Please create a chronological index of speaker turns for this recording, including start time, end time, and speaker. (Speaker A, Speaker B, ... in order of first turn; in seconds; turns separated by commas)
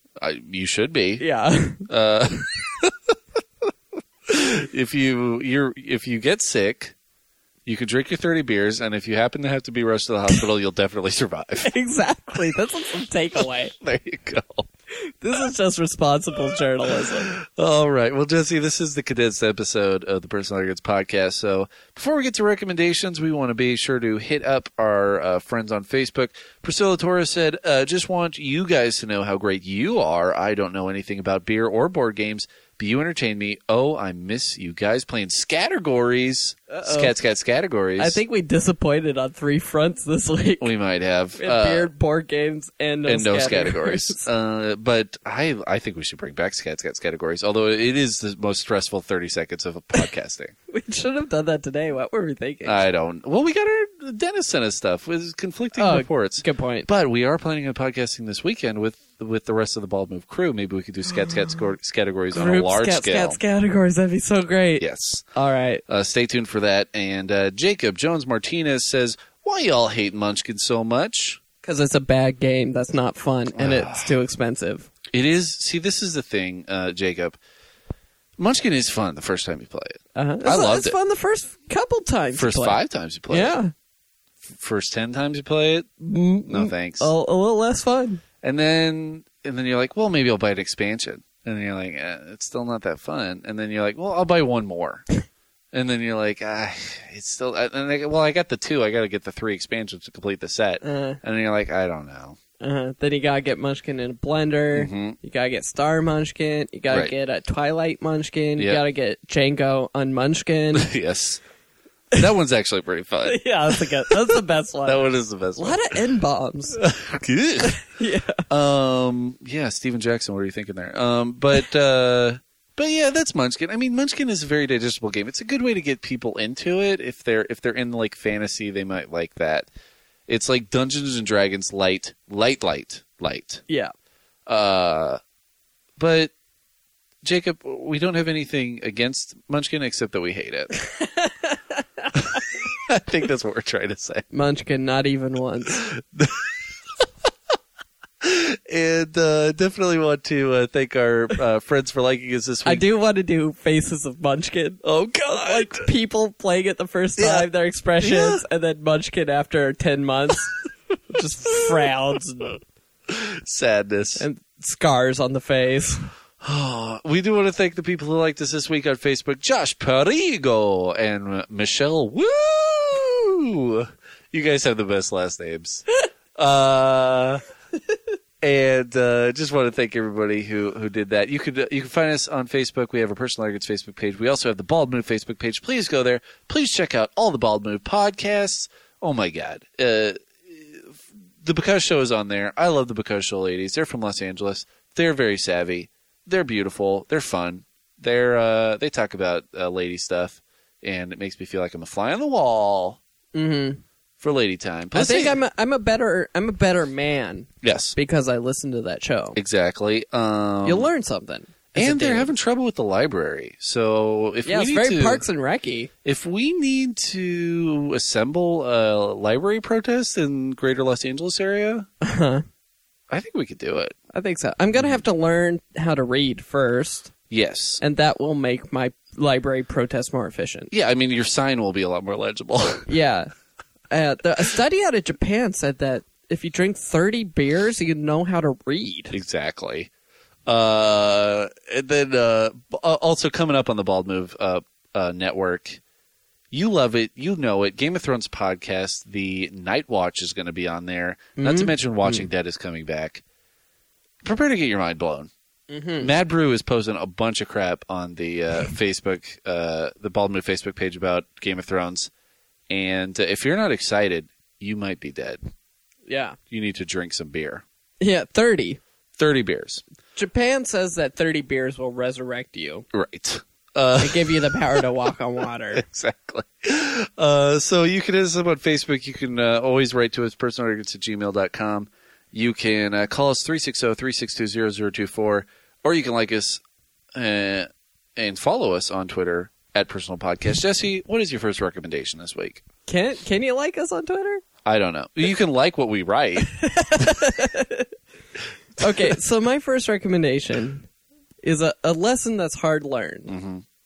Speaker A: 0.2-1.2, Speaker B: 1.2-1.9, Speaker A: 1.9-2.9, Speaker A: 4.3-7.0, Speaker A: 7.7-11.7, Speaker B: 11.6-13.7, Speaker A: 13.4-14.7, Speaker B: 15.0-17.3, Speaker A: 17.0-38.2, Speaker B: 36.7-37.1, Speaker B: 38.0-40.7, Speaker A: 40.6-41.9, Speaker B: 41.4-44.3, Speaker A: 43.1-50.5, Speaker B: 50.7-52.8, Speaker A: 52.6-63.4, Speaker B: 55.8-56.9, Speaker B: 62.3-65.8, Speaker A: 64.8-65.2, Speaker A: 65.9-71.4, Speaker B: 71.6-74.9, Speaker A: 73.5-74.1, Speaker A: 75.1-77.4, Speaker A: 78.4-81.0, Speaker B: 80.2-82.8, Speaker A: 82.3-83.6, Speaker B: 83.3-83.7, Speaker A: 84.4-85.9, Speaker B: 86.0-88.2, Speaker A: 86.5-87.1, Speaker A: 88.4-95.0, Speaker A: 95.7-102.4, Speaker B: 100.8-101.2, Speaker B: 102.6-110.9, Speaker A: 104.7-105.2, Speaker A: 110.8-111.4, Speaker A: 112.2-115.8, Speaker B: 113.2-115.1, Speaker B: 115.6-116.8, Speaker A: 116.8-117.8, Speaker B: 117.6-118.4, Speaker A: 118.5-129.7, Speaker A: 130.3-133.6, Speaker A: 134.5-135.2, Speaker A: 136.0-136.3, Speaker A: 137.2-140.7, Speaker B: 141.0-142.1, Speaker A: 142.7-144.2, Speaker B: 144.3-145.9, Speaker A: 145.8-146.6, Speaker A: 148.2-152.8, Speaker B: 152.7-160.5, Speaker A: 154.8-155.9, Speaker A: 157.2-157.5, Speaker A: 158.0-158.4, Speaker B: 161.1-162.6, Speaker A: 163.1-164.2, Speaker B: 164.2-166.1, Speaker A: 166.4-177.4, Speaker A: 178.4-203.0, Speaker B: 203.3-203.8, Speaker A: 204.2-205.4, Speaker B: 204.9-209.4, Speaker A: 207.6-207.9, Speaker A: 209.3-210.9, Speaker B: 210.6-212.3, Speaker A: 211.8-215.2, Speaker B: 214.4-215.9, Speaker A: 216.1-221.9, Speaker B: 222.0-222.4, Speaker A: 223.1-223.9, Speaker B: 224.1-227.1, Speaker A: 227.3-227.8, Speaker B: 227.8-230.7, Speaker A: 230.7-232.9, Speaker B: 232.9-233.3, Speaker B: 233.9-239.1, Speaker A: 239.1-239.9, Speaker A: 240.5-245.8, Speaker A: 246.5-253.2, Speaker B: 251.4-252.3, Speaker A: 254.2-255.3, Speaker B: 255.7-256.1, Speaker A: 256.0-262.1, Speaker A: 262.7-265.4, Speaker B: 266.1-266.4, Speaker A: 266.5-267.6, Speaker B: 268.0-268.8, Speaker A: 269.2-269.8, Speaker B: 270.1-272.9, Speaker A: 272.9-274.8, Speaker B: 274.0-275.8, Speaker A: 275.7-286.6, Speaker A: 287.1-292.6, Speaker B: 292.9-294.4, Speaker A: 294.6-297.1, Speaker B: 296.4-297.9, Speaker B: 298.8-300.9, Speaker A: 298.8-299.1, Speaker B: 301.4-303.3, Speaker A: 303.3-303.6